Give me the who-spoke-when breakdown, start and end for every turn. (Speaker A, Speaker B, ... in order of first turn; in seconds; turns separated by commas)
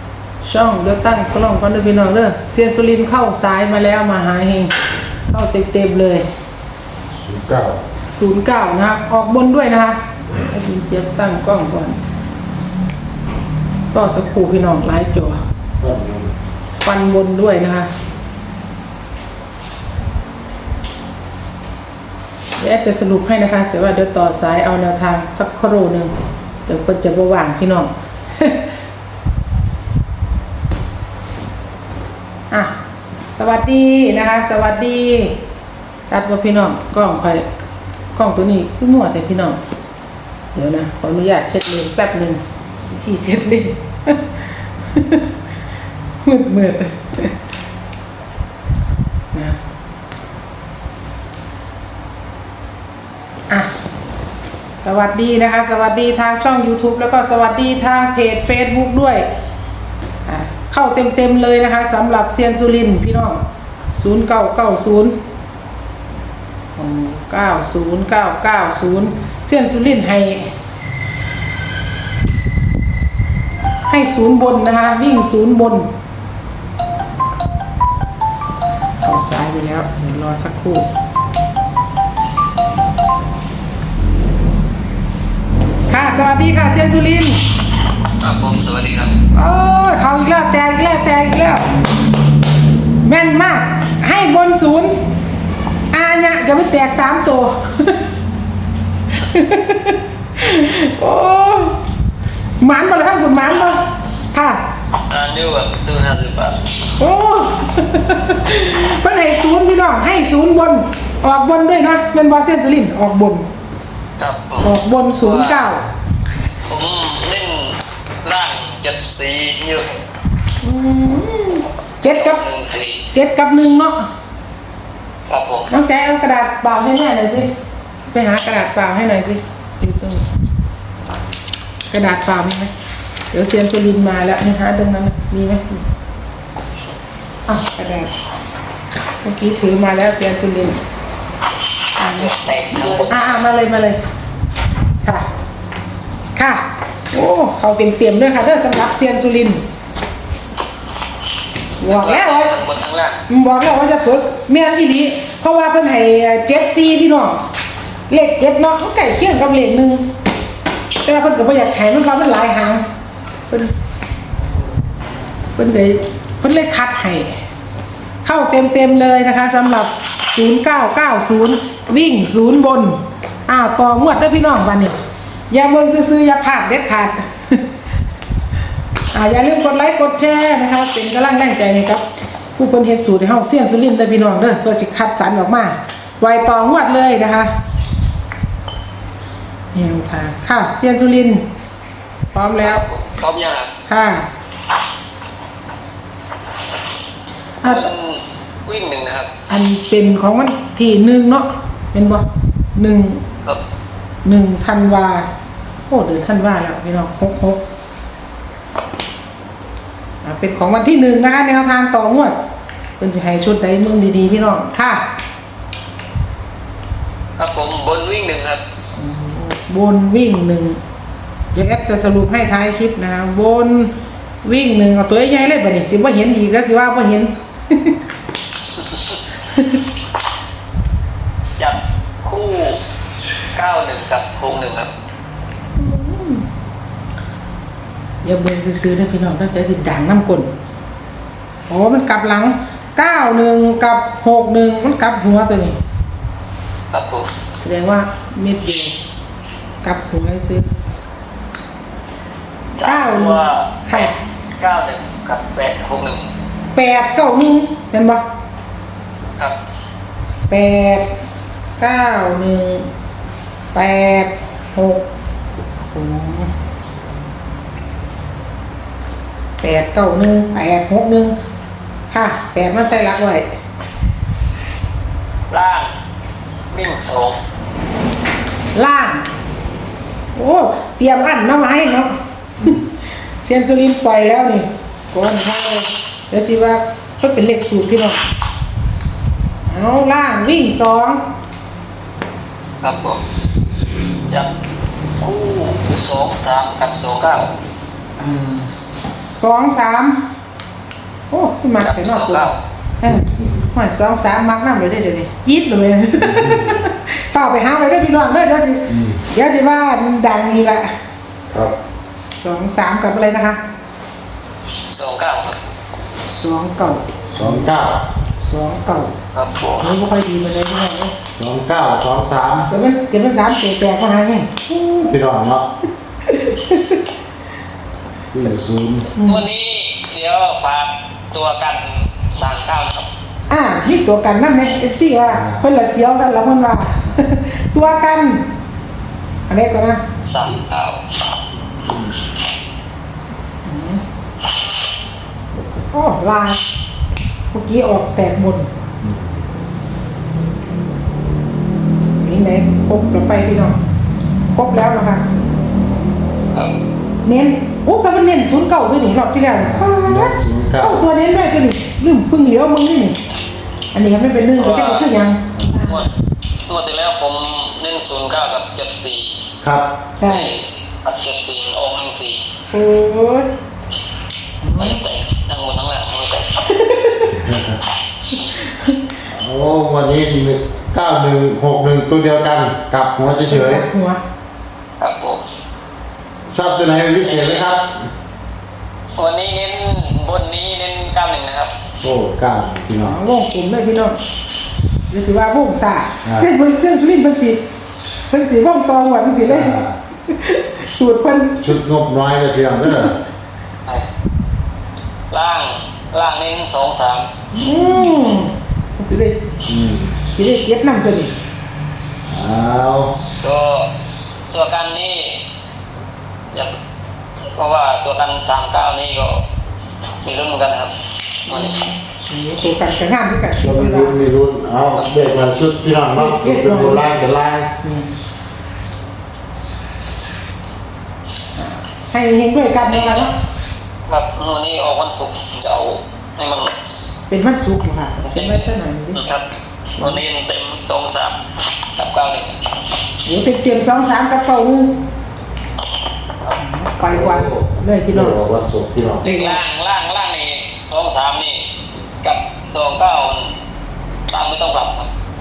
Speaker A: 0.4-4.7, Speaker A: 5.3-6.2, Speaker B: 7.2-7.8, Speaker A: 8.1-12.0, Speaker A: 13.9-15.4, Speaker B: 15.8-16.3, Speaker A: 16.8-17.9, Speaker A: 22.6-26.1, Speaker A: 26.6-28.6, Speaker A: 33.3-35.3, Speaker A: 36.1-37.5, Speaker A: 38.1-39.6, Speaker A: 40.5-45.3, Speaker A: 46.2-47.3, Speaker A: 49.3-49.6, Speaker A: 54.8-59.3, Speaker A: 60.2-63.4, Speaker A: 63.9-65.2, Speaker A: 66.8-70.5, Speaker A: 73.9-75.9, Speaker A: 79.0-80.9, Speaker A: 85.9-87.4, Speaker C: 88.2-89.2, Speaker A: 89.3-91.7, Speaker A: 93.0-95.0, Speaker A: 95.9-98.0, Speaker A: 99.1-101.8, Speaker A: 102.6-104.6, Speaker C: 105.1-106.9, Speaker A: 107.0-113.5, Speaker C: 114.2-115.7, Speaker A: 114.6-115.8, Speaker C: 116.7-119.9, Speaker A: 120.6-122.4, Speaker C: 122.0-123.1, Speaker A: 123.1-124.1, Speaker C: 125.3-125.7, Speaker A: 125.7-127.5, Speaker A: 128.1-130.2, Speaker A: 131.9-132.7, Speaker A: 133.3-135.8, Speaker A: 137.5-138.1, Speaker A: 139.2-140.8, Speaker A: 142.0-144.0, Speaker C: 142.0-143.4, Speaker A: 146.3-149.6, Speaker A: 151.8-152.5, Speaker C: 151.8-153.2, Speaker A: 153.3-157.4, Speaker A: 158.1-160.0, Speaker A: 161.0-162.8, Speaker A: 165.6-167.3, Speaker A: 168.2-175.0, Speaker A: 175.5-177.6, Speaker A: 179.1-182.0, Speaker A: 182.6-187.5, Speaker A: 189.7-191.4, Speaker A: 192.3-192.8, Speaker C: 192.6-193.7, Speaker A: 193.9-194.2, Speaker A: 197.6-197.9, Speaker C: 197.6-199.3, Speaker A: 199.5-202.2, Speaker A: 202.8-203.2, Speaker A: 204.2-205.3, Speaker A: 205.9-207.6, Speaker A: 210.2-212.3, Speaker A: 213.0-215.0, Speaker C: 217.4-218.6, Speaker A: 219.0-220.8, Speaker A: 221.5-223.9, Speaker A: 224.4-228.0, Speaker C: 228.7-229.2, Speaker A: 229.5-229.8, Speaker C: 231.6-232.8, Speaker C: 233.5-234.9, Speaker A: 235.8-236.5, Speaker A: 238.2-240.5, Speaker A: 241.7-245.8, Speaker C: 246.9-247.3, Speaker A: 247.6-248.9, Speaker A: 249.8-250.7, Speaker C: 252.7-256.2, Speaker A: 252.8-254.1, Speaker A: 256.7-258.2, Speaker A: 260.5-261.1, Speaker A: 261.8-262.9, Speaker A: 263.7-265.0, Speaker A: 265.9-266.5, Speaker A: 269.6-271.4, Speaker A: 272.1-273.5, Speaker C: 275.5-275.9, Speaker C: 276.7-277.4, Speaker A: 278.7-279.3, Speaker A: 280.3-282.8, Speaker A: 283.4-288.2, Speaker A: 289.7-291.2, Speaker C: 292.8-293.2, Speaker C: 295.2-297.5, Speaker A: 298.2-300.2, Speaker A: 301.3-302.5, Speaker C: 301.8-302.6, Speaker A: 303.0-310.9, Speaker B: 303.0-303.7, Speaker B: 306.2-306.9, Speaker B: 308.9-309.2, Speaker A: 312.4-313.6, Speaker C: 314.9-315.6, Speaker A: 316.3-317.7, Speaker B: 317.3-318.0, Speaker A: 318.4-319.1, Speaker C: 319.3-319.9, Speaker A: 319.8-321.1, Speaker B: 321.4-322.7, Speaker A: 322.7-325.1, Speaker B: 325.1-325.7, Speaker A: 326.2-327.0, Speaker B: 328.3-329.1, Speaker A: 329.1-329.4, Speaker C: 329.1-333.1, Speaker A: 333.5-338.4, Speaker B: 335.3-335.6, Speaker A: 339.5-340.0, Speaker C: 340.2-341.0, Speaker A: 343.6-344.0, Speaker A: 345.9-346.6, Speaker A: 347.5-348.7, Speaker B: 349.0-349.3, Speaker A: 352.2-353.8, Speaker A: 354.5-355.2, Speaker A: 357.2-363.2, Speaker B: 359.5-361.1, Speaker A: 363.9-366.1, Speaker C: 364.5-365.1, Speaker B: 365.5-365.8, Speaker C: 365.8-366.1, Speaker C: 366.7-369.4, Speaker B: 369.6-369.9, Speaker A: 370.2-370.5, Speaker C: 370.2-372.4, Speaker A: 372.7-373.5, Speaker A: 374.6-375.0, Speaker C: 374.7-376.6, Speaker A: 376.7-377.4, Speaker B: 377.3-377.8, Speaker A: 378.4-378.9, Speaker B: 379.3-383.9, Speaker A: 383.5-384.2, Speaker C: 385.0-385.4, Speaker B: 386.5-388.0, Speaker C: 387.2-387.6, Speaker C: 389.2-391.7, Speaker B: 392.0-393.2, Speaker A: 393.0-394.2, Speaker A: 395.1-397.6, Speaker A: 398.3-401.8, Speaker B: 399.4-399.9, Speaker B: 401.6-403.1, Speaker C: 405.3-407.3, Speaker A: 407.5-409.4, Speaker B: 409.6-410.2, Speaker A: 410.3-411.3, Speaker B: 412.3-413.1, Speaker C: 413.4-413.9, Speaker C: 414.5-415.4, Speaker C: 417.4-419.4, Speaker C: 420.2-421.8, Speaker A: 421.5-424.1, Speaker B: 423.6-427.7, Speaker A: 426.1-427.0, Speaker A: 427.8-428.1, Speaker A: 431.6-433.3, Speaker C: 432.8-433.3, Speaker C: 434.1-436.7, Speaker A: 437.3-439.2, Speaker C: 438.2-439.4, Speaker C: 440.0-441.4, Speaker C: 441.9-442.6, Speaker A: 443.2-444.9, Speaker A: 446.6-448.4, Speaker B: 447.0-449.2, Speaker C: 449.2-451.6, Speaker A: 449.2-449.6, Speaker C: 452.2-453.5, Speaker C: 454.3-455.1